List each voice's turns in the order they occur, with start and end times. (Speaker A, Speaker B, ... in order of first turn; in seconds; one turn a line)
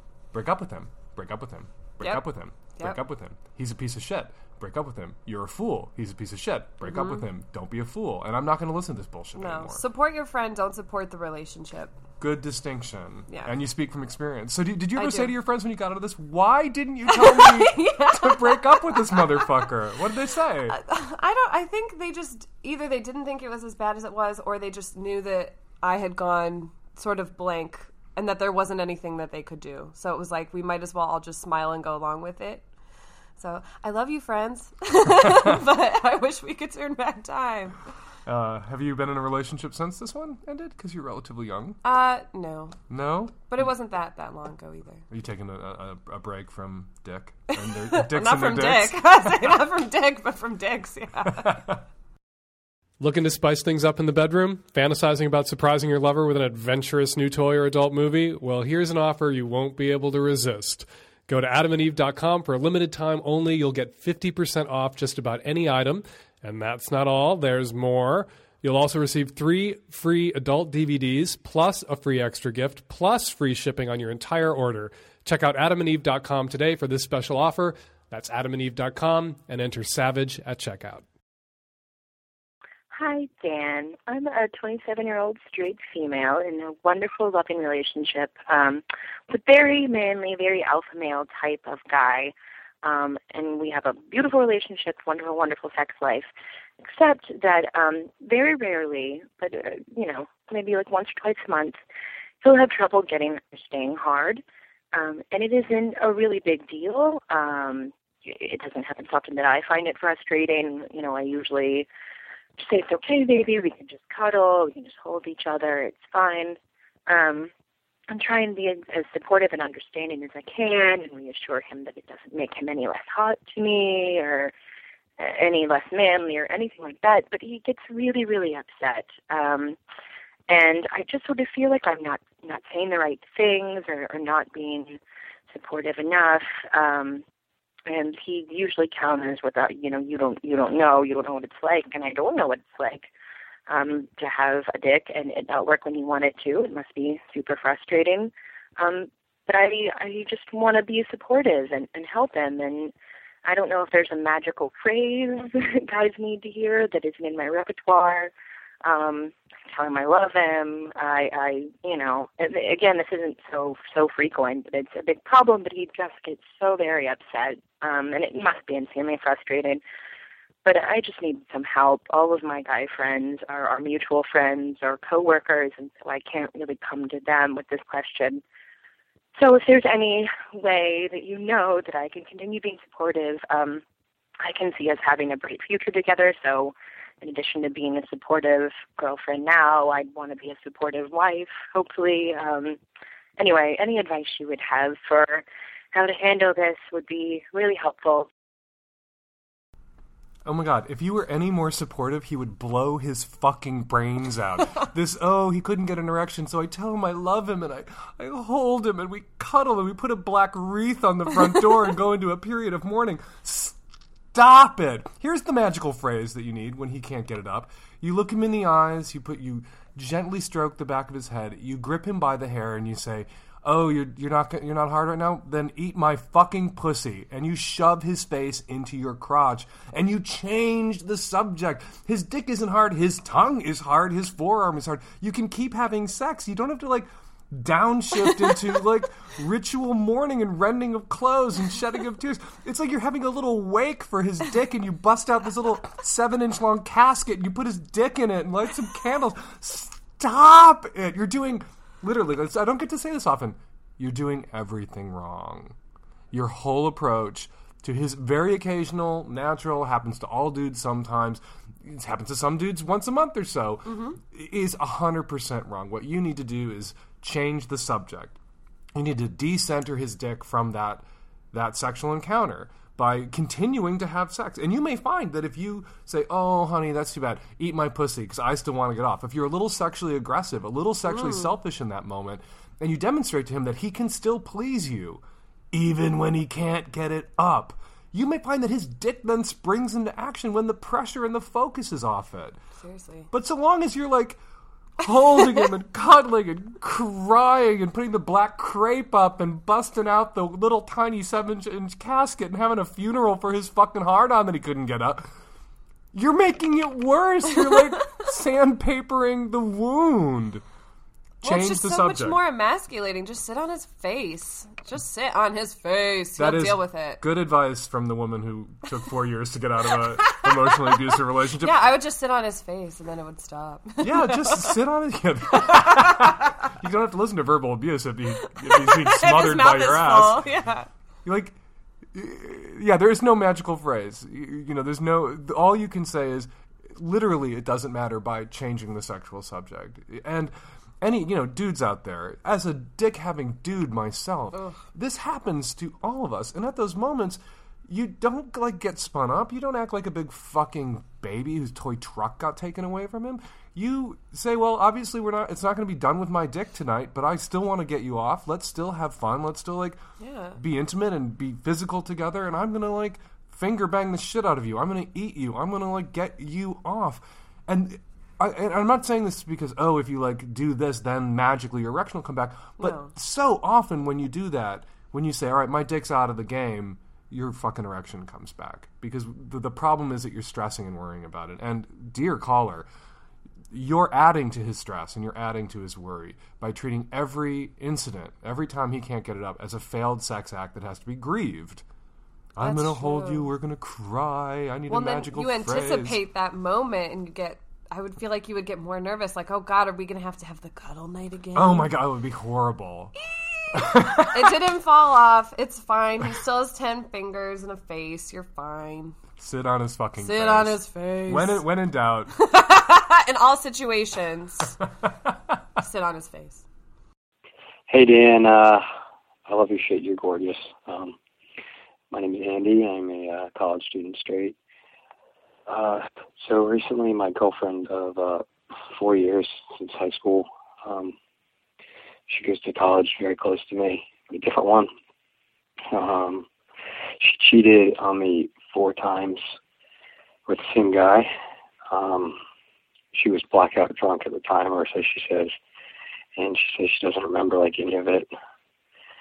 Speaker A: 0.3-9.8
Speaker B: 2.0-3.0
Speaker B: 6.8-7.2
Speaker B: 9.4-11.9
Speaker A: 12.2-20.8
Speaker B: 13.3-13.5
Speaker B: 15.0-15.3
Speaker B: 17.1-19.6
Speaker B: 20.7-32.7
Speaker B: 33.4-37.8
Speaker A: 38.3-41.8
Speaker B: 41.8-42.8
Speaker A: 42.9-43.4
Speaker B: 43.5-45.1
Speaker A: 45.1-49.6
Speaker B: 47.7-51.6
Speaker A: 51.4-51.8
Speaker C: 53.0-81.0
Speaker D: 82.9-101.8
Speaker D: 102.4-111.9
Speaker D: 112.6-117.5
Speaker D: 118.1-124.5
Speaker D: 125.2-129.8
Speaker D: 130.5-135.0
Speaker D: 135.5-137.2
Speaker D: 137.9-143.1
Speaker D: 143.7-152.9
Speaker D: 153.4-158.3
Speaker D: 158.8-169.8
Speaker D: 170.7-178.4
Speaker D: 179.4-183.8
Speaker D: 184.4-192.8
Speaker D: 193.4-198.3
Speaker A: 200.4-213.8
Speaker A: 214.3-255.8
Speaker A: 256.3-268.4
Speaker B: 263.9-264.2
Speaker A: 268.9-292.6
Speaker B: 281.1-281.5
Speaker B: 292.8-293.3
Speaker A: 293.3-294.4
Speaker A: 295.0-305.3
Speaker A: 306.1-310.6
Speaker A: 311.4-312.4
Speaker B: 311.4-317.2
Speaker A: 316.4-321.8
Speaker B: 321.6-324.8
Speaker A: 324.0-330.5
Speaker B: 325.6-326.3
Speaker B: 328.7-330.9
Speaker A: 331.2-331.6
Speaker A: 332.1-360.0
Speaker B: 344.5-344.8
Speaker B: 360.2-360.6
Speaker A: 360.6-382.9
Speaker B: 372.8-373.1
Speaker A: 383.7-391.8
Speaker A: 392.6-396.2
Speaker B: 392.6-393.5
Speaker B: 394.9-401.9
Speaker A: 401.6-403.1
Speaker B: 403.2-409.2
Speaker A: 403.7-404.6
Speaker A: 409.4-412.3
Speaker B: 410.2-411.6
Speaker B: 412.4-414.8
Speaker B: 415.8-416.6
Speaker E: 417.9-418.8
Speaker E: 419.5-421.2
Speaker E: 422.1-424.6
Speaker E: 425.7-431.1
Speaker E: 432.3-434.9
Speaker E: 435.9-436.5
Speaker E: 437.2-439.4
Speaker E: 440.5-441.3
Speaker E: 441.9-442.4
Speaker E: 443.1-445.5
Speaker E: 446.4-448.3